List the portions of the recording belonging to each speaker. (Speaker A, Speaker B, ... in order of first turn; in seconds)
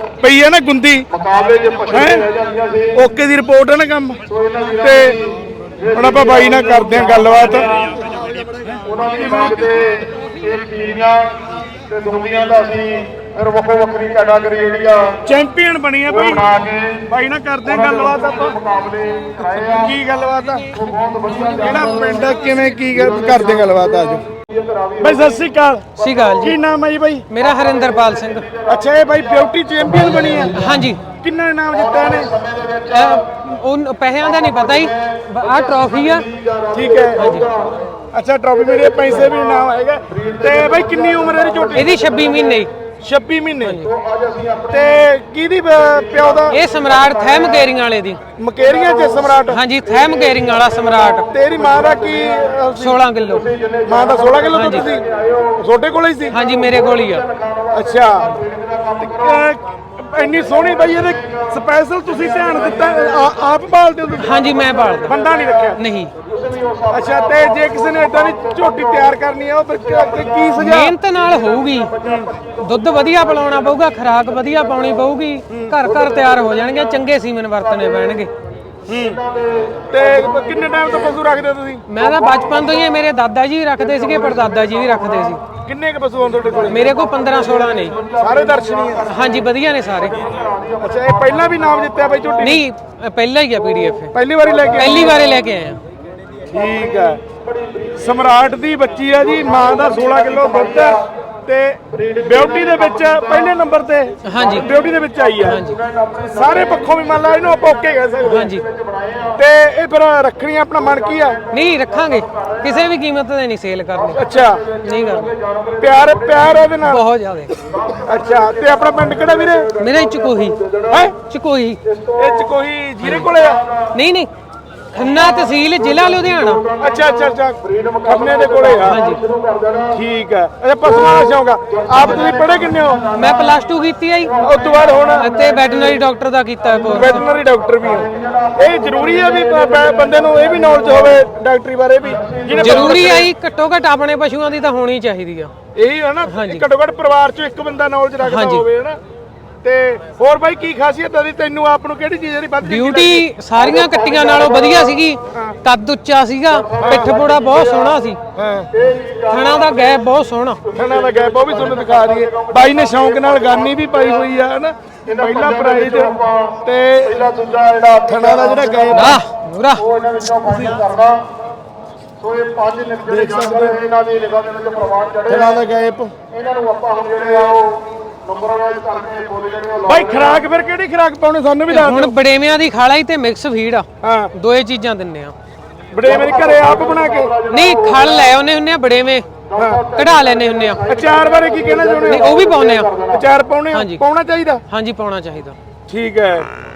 Speaker A: 0.2-1.0, 1.9-2.2, 2.9-4.2, 4.8-5.2, 5.9-8.0, 8.9-9.7, 15.2-16.5, 17.1-18.6, 19.4-20.7, 21.6-24.2, 25.0-27.3, 28.7-32.3, 36.7-37.4, 38.1-41.9, 43.0-43.8, 44.7-46.6, 48.4-49.6, 51.3-53.0, 53.8-55.0, 55.6-56.4, 57.7-58.3, 59.0-65.8, 66.9-71.0, 72.0-72.4, 75.5-75.8, 78.9-79.2, 79.9-81.9, 85.6-87.0, 88.2-89.1, 90.8-92.7, 94.1-95.2, 96.5-97.2, 98.0-105.6, 106.2-108.5, 109.3-111.4, 114.1-114.6, 115.8-117.0, 118.0-119.7, 120.9-121.2, 122.2-123.6, 126.8-129.0, 129.9-133.0, 134.4-135.3, 136.8-143.3, 145.7-149.0, 149.6-153.3, 155.3-155.6, 156.8-157.2, 158.3-158.7, 160.7-167.2, 168.1-169.2, 170.5-170.8, 173.1-173.8, 175.3-176.1, 179.9-182.2, 184.0-184.3, 185.9-187.3, 189.6-189.8, 190.8-192.4, 193.1-194.6, 195.9-196.5
Speaker B: 1.1-3.0, 4.3-8.1, 8.8-15.2, 16.1-17.1, 17.6-20.0, 20.7-25.5, 26.0-26.3, 27.4-30.9, 31.7-33.3, 34.2-37.8, 38.5-42.7, 43.8-45.1, 45.8-47.7, 48.6-52.5, 53.3-55.6, 56.3-59.5, 60.2-63.4, 64.3-69.2, 69.8-70.7, 71.4-73.7, 74.4-75.0, 75.8-78.3, 78.9-81.2, 82.0-82.9, 83.8-85.3, 86.3-89.5, 90.1-92.5, 94.4-95.3, 96.6-98.4, 99.1-101.1, 101.9-103.6, 104.3-109.4, 110.9-112.8, 114.0-116.7, 117.6-121.1, 121.8-122.5, 123.4-123.9, 125.0-130.0, 130.8-133.7, 134.2-135.6, 137.8-141.2, 142.0-143.2, 153.6-155.0, 156.5-158.0, 158.7-160.1, 160.6-164.3, 165.1-169.2, 169.8-171.2, 172.2-175.7, 176.3-180.4, 186.0-188.4, 189.5-193.2
Speaker C: 26.0-26.6, 27.3-28.5, 30.5-31.0, 32.9-36.3, 37.2-37.5, 41.7-42.7, 43.6-43.9, 46.5-48.2, 49.5-51.3, 52.8-53.5, 54.5-54.9, 56.3-57.2, 64.2-65.2, 65.7-66.1, 70.6-71.9, 72.6-78.3, 81.9-85.4, 86.7-88.0, 89.0-90.2, 92.4-94.2, 94.7-95.8, 104.2-104.7, 105.4-105.8, 108.2-108.6, 111.5-114.3, 114.8-115.3, 116.8-117.6, 119.7-120.6, 121.2-121.8, 123.0-123.3, 123.9-124.3, 124.9-126.6, 128.8-129.2, 133.1-134.4, 135.1-137.2, 142.6-145.5, 146.2-146.7, 148.2-148.7, 152.6-158.2, 159.3-160.6, 168.9-169.8, 181.7-185.3, 187.5-189.3, 189.9-190.8, 192.0-192.9, 193.7-194.0, 194.7-195.6